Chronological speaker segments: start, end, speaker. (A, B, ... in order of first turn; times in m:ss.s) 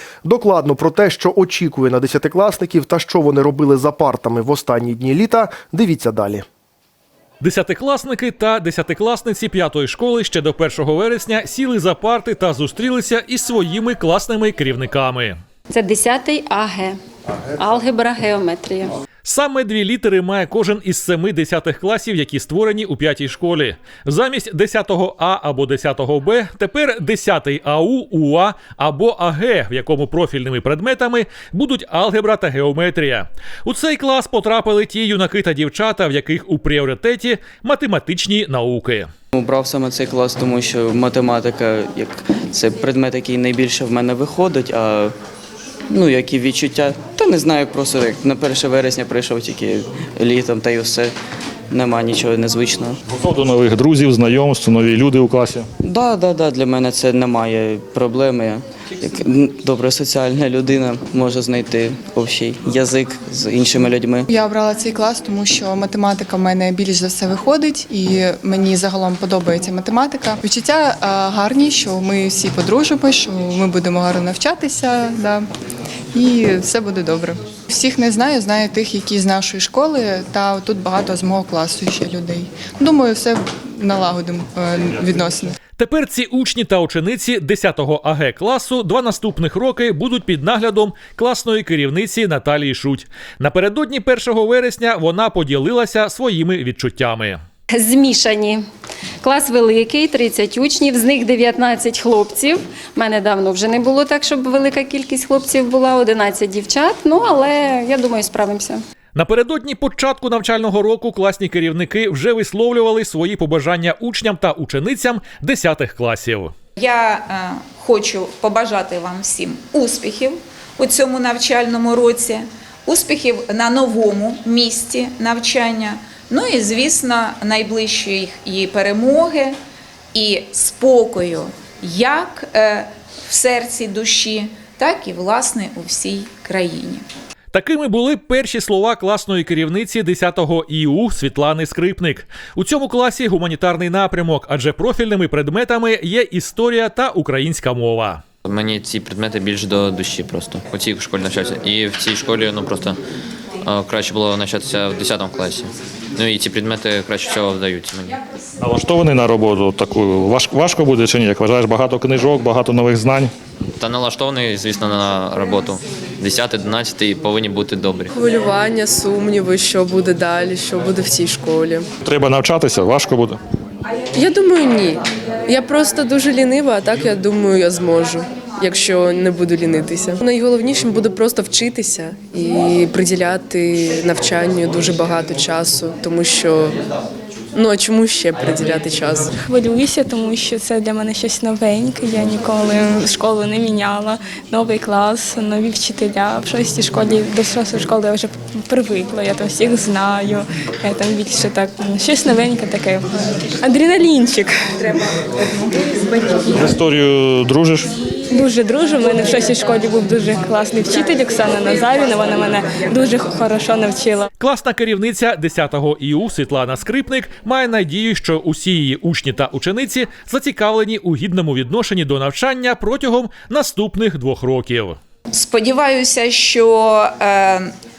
0:00.2-0:06.4 A
0:07.4-0:15.4 B
0:15.7-0:17.0 C
0:17.6-0:18.9 C
0:19.2-0:39.1 B
0:39.3-0:45.2 D
0:45.9-0:51.1 D
0:51.7-0:53.0 D
0:53.2-0:55.6 E
0:55.8-1:04.3 D
1:04.3-1:15.4 F
1:16.1-1:25.6 F
1:25.8-1:37.4 B
1:37.7-1:38.6 C
1:39.2-1:48.8 C
1:49.2-1:56.5 B
1:56.8-2:00.3 G
2:00.8-2:09.5 G
2:10.2-2:11.4 G
2:12.0-2:12.8 G
2:13.3-2:17.0 G
2:17.5-2:28.2 B
2:28.5-2:32.9 H
2:33.6-2:35.7 H
2:36.2-2:38.1 H
2:38.6-2:43.3 E
2:43.8-2:48.1 H
2:48.1-2:51.9 I
2:52.1-2:53.4 E
2:54.1-3:06.8 I
3:07.5-3:09.3 I
3:09.4-3:23.1 J
3:23.6-3:25.0 J
3:26.6-3:27.9 E
3:28.3-3:34.3 J
3:34.4-3:45.0 B
3:45.3-3:46.7 G
3:47.3-3:47.6 G